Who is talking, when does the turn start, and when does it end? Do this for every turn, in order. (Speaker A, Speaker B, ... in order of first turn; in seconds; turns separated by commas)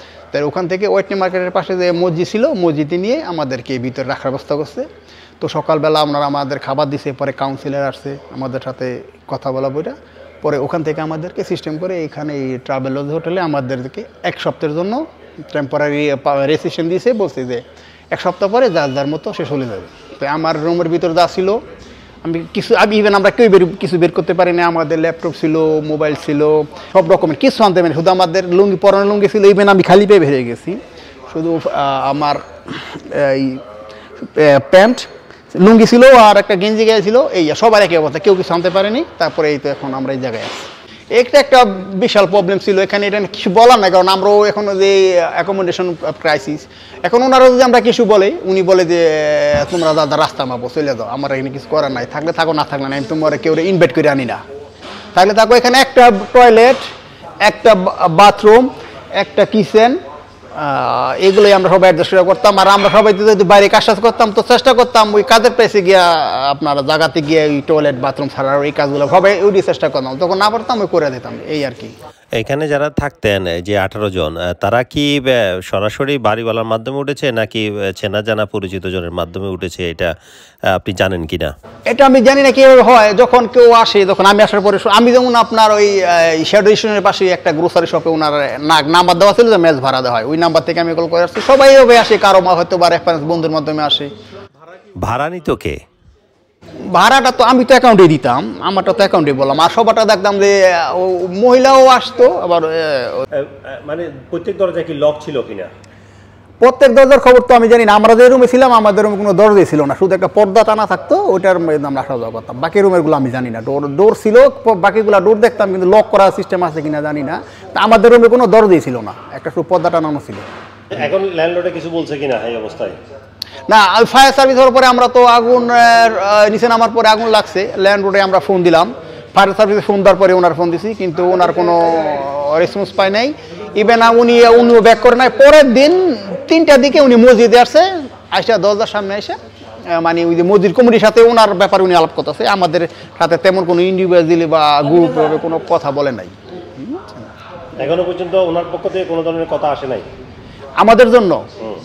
Speaker A: 0.3-4.9, Speaker A: 5.4-21.6, Speaker A: 22.2-33.6, Speaker A: 34.2-54.4, Speaker A: 55.1-56.8, Speaker A: 57.4-60.0, Speaker A: 60.6-71.9, Speaker B: 72.4-80.1, Speaker B: 80.7-81.5, Speaker A: 81.9-94.1, Speaker B: 95.0-95.8, Speaker A: 96.9-103.2, Speaker C: 103.4-105.7, Speaker A: 106.6-120.5, Speaker C: 120.9-123.0, Speaker A: 123.7-139.4, Speaker A: 139.9-147.2, Speaker C: 147.8-150.1, Speaker A: 150.8-151.4